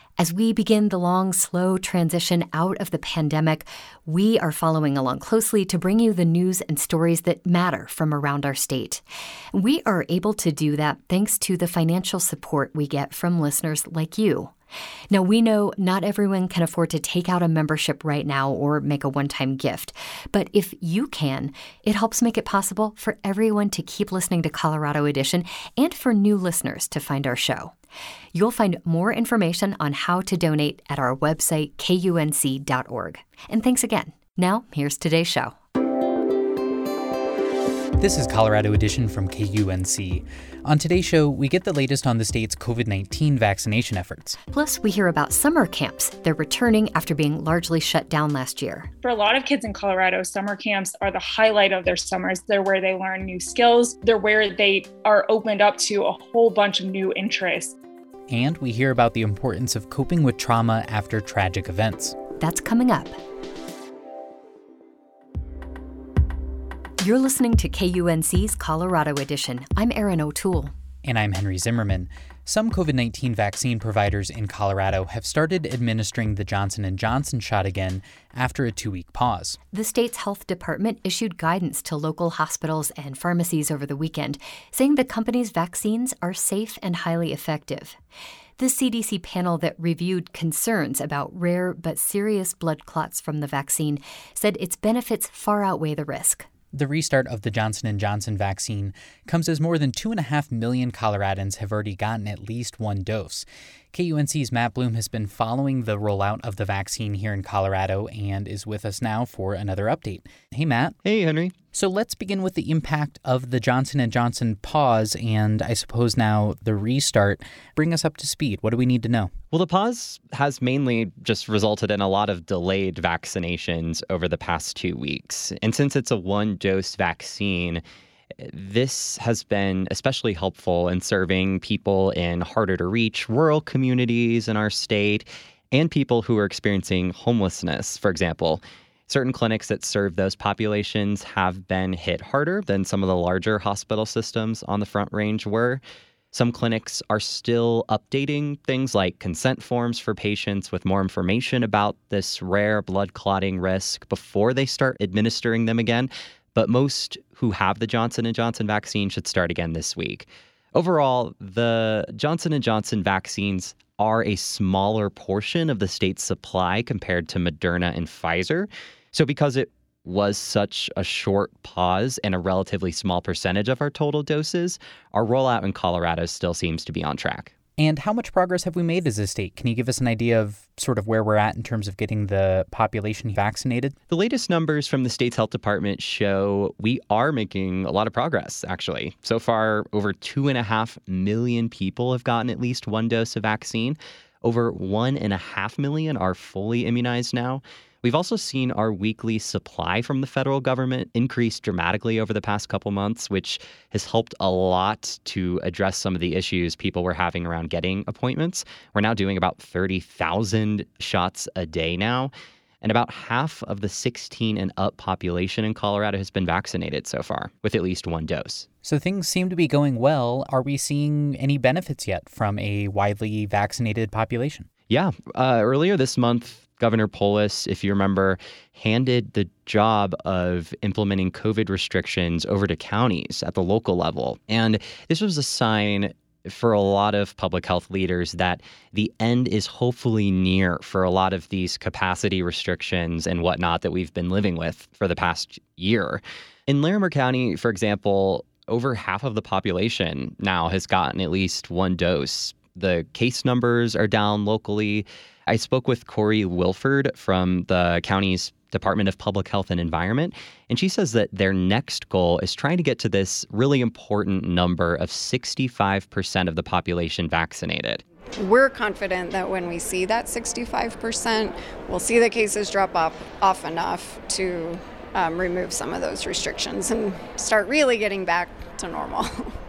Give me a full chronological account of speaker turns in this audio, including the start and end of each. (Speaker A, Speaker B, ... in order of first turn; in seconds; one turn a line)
Speaker A: 0.2-14.5
Speaker A: 15.1-27.7
Speaker A: 28.3-35.5
Speaker B: 38.0-44.4
Speaker A: 44.5-48.9
Speaker C: 49.0-57.8
Speaker B: 58.3-62.2
Speaker A: 62.4-63.2
Speaker A: 67.0-70.7
Speaker B: 71.0-79.6
Speaker A: 79.7-88.0
Speaker A: 88.6-96.5
Speaker B: 96.7-111.0
Speaker D: 111.0-111.5
Speaker B: 111.7-119.3
Speaker D: 119.5-127.8
Speaker D: 128.4-177.6
Speaker B: 177.8-183.9
Speaker D: 184.1-218.7
Speaker B: 218.8-224.7
Speaker D: 224.9-268.0
Speaker E: 268.4-279.5